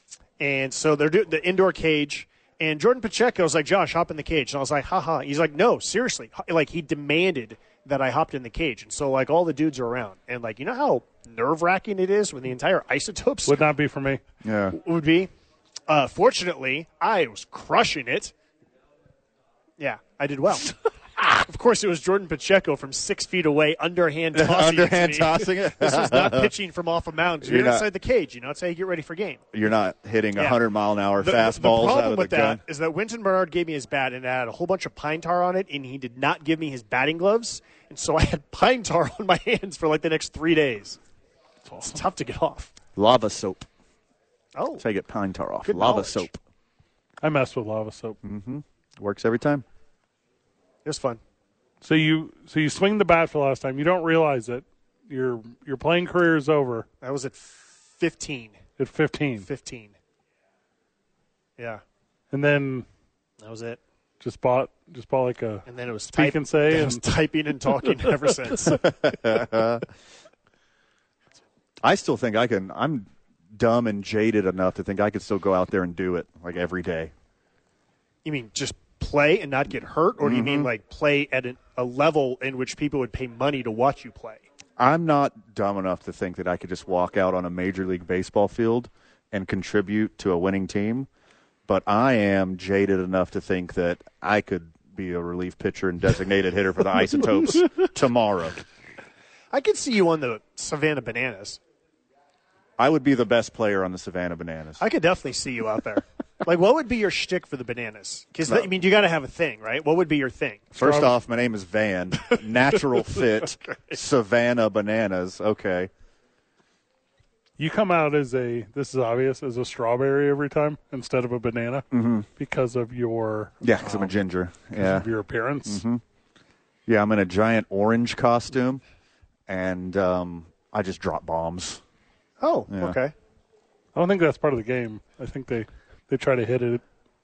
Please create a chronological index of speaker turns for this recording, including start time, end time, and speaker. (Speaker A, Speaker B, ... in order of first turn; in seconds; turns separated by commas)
Speaker A: 0.4-13.6, Speaker B: 13.4-14.2, Speaker C: 14.4-14.8, Speaker A: 14.8-15.3, Speaker A: 15.9-18.3, Speaker A: 19.8-29.5, Speaker C: 24.3-26.5, Speaker C: 27.4-27.9, Speaker C: 29.5-32.6, Speaker A: 30.4-30.6, Speaker A: 31.2-41.0, Speaker B: 41.6-42.0, Speaker A: 41.8-42.7, Speaker C: 43.0-43.7, Speaker A: 44.5-44.8, Speaker C: 44.8-46.4, Speaker A: 45.6-46.3, Speaker B: 47.2-48.2, Speaker C: 48.2-49.6, Speaker A: 50.9-51.2, Speaker B: 51.8-56.9, Speaker A: 57.0-58.6, Speaker B: 58.8-59.5, Speaker A: 59.4-60.0, Speaker A: 61.6-61.8, Speaker B: 62.3-62.9, Speaker A: 63.4-63.8, Speaker B: 64.2-67.0, Speaker A: 65.7-68.9, Speaker C: 68.8-69.8, Speaker C: 71.8-77.1, Speaker A: 78.2-84.5, Speaker C: 80.2-80.7, Speaker C: 84.8-91.1, Speaker C: 91.7-98.6, Speaker A: 99.5-101.6, Speaker C: 102.8-104.8, Speaker A: 104.8-110.7, Speaker C: 108.5-108.7, Speaker C: 110.7-115.9, Speaker B: 110.8-111.1, Speaker B: 117.6-124.1, Speaker C: 121.9-122.3, Speaker C: 123.6-125.1, Speaker B: 124.7-125.8, Speaker C: 125.7-126.0, Speaker C: 126.9-128.8, Speaker C: 129.5-131.8, Speaker A: 132.4-133.1, Speaker C: 132.7-133.0, Speaker B: 133.9-136.8